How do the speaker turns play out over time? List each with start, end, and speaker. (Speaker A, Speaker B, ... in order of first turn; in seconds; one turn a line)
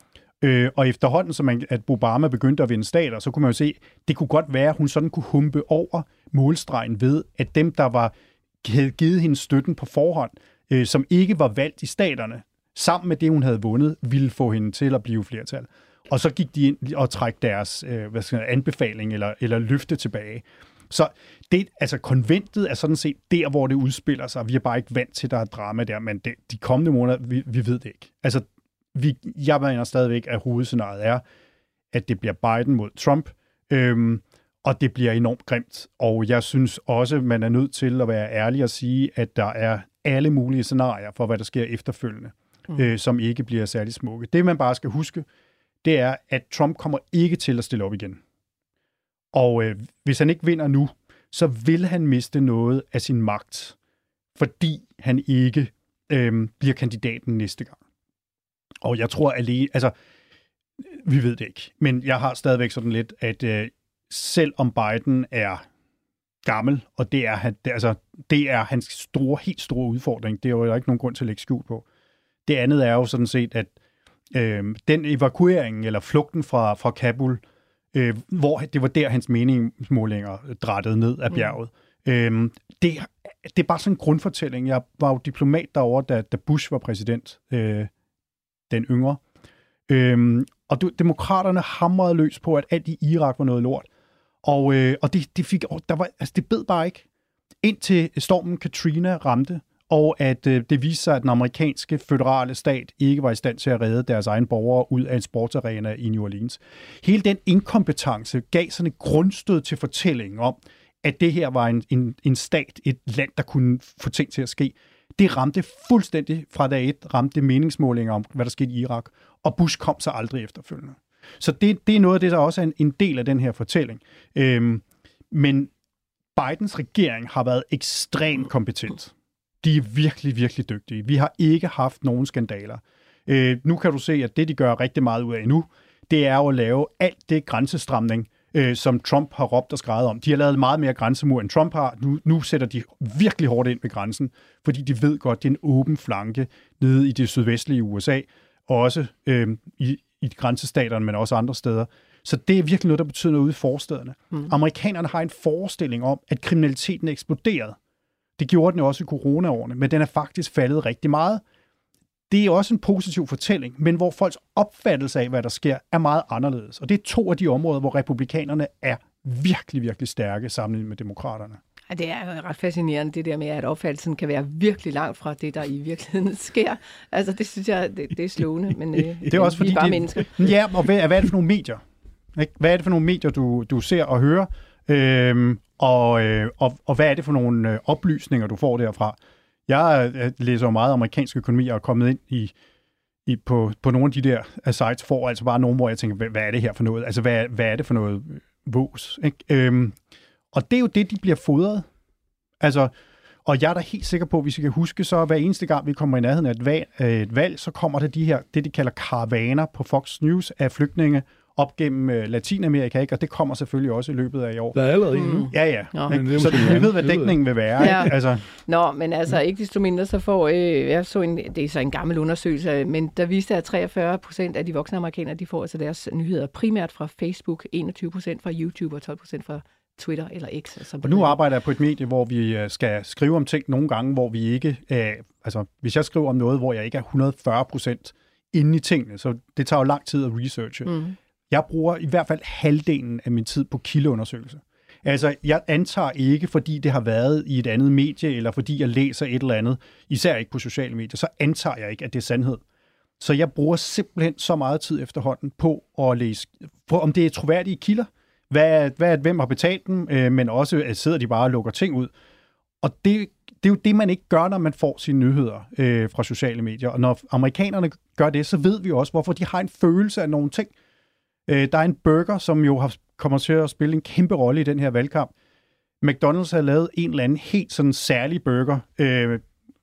Speaker A: 0.4-31.2
Speaker A: 31.9-45.3
Speaker A: 45.8-48.2
Speaker A: 49.3-53.8
Speaker A: 54.4-57.8
Speaker A: 58.8-59.9
Speaker A: 60.8-65.6
Speaker A: 66.4-71.8
Speaker A: 72.5-73.7
Speaker A: 74.3-77.4
Speaker A: 77.9-87.9
Speaker A: 88.7-89.2
Speaker A: 89.9-93.9
Speaker A: 94.4-97.0
Speaker A: 97.6-125.7
Speaker A: 126.3-157.8
Speaker A: 158.4-161.4
Speaker A: 162.3-171.6
Speaker B: 171.9-180.5
Speaker A: 179.3-181.8
Speaker A: 182.3-189.2
Speaker A: 189.7-192.5
Speaker A: 193.2-200.0
Speaker A: 200.5-201.9
Speaker A: 202.6-202.9
Speaker A: 203.4-214.8
Speaker C: 214.7-215.5
Speaker B: 215.1-216.8
Speaker A: 215.5-218.4
Speaker C: 216.1-217.9
Speaker B: 217.8-231.4
Speaker A: 231.0-252.6
Speaker B: 240.8-241.1
Speaker A: 253.2-262.1
Speaker A: 262.8-270.7
Speaker A: 271.5-275.3
Speaker A: 276.0-279.4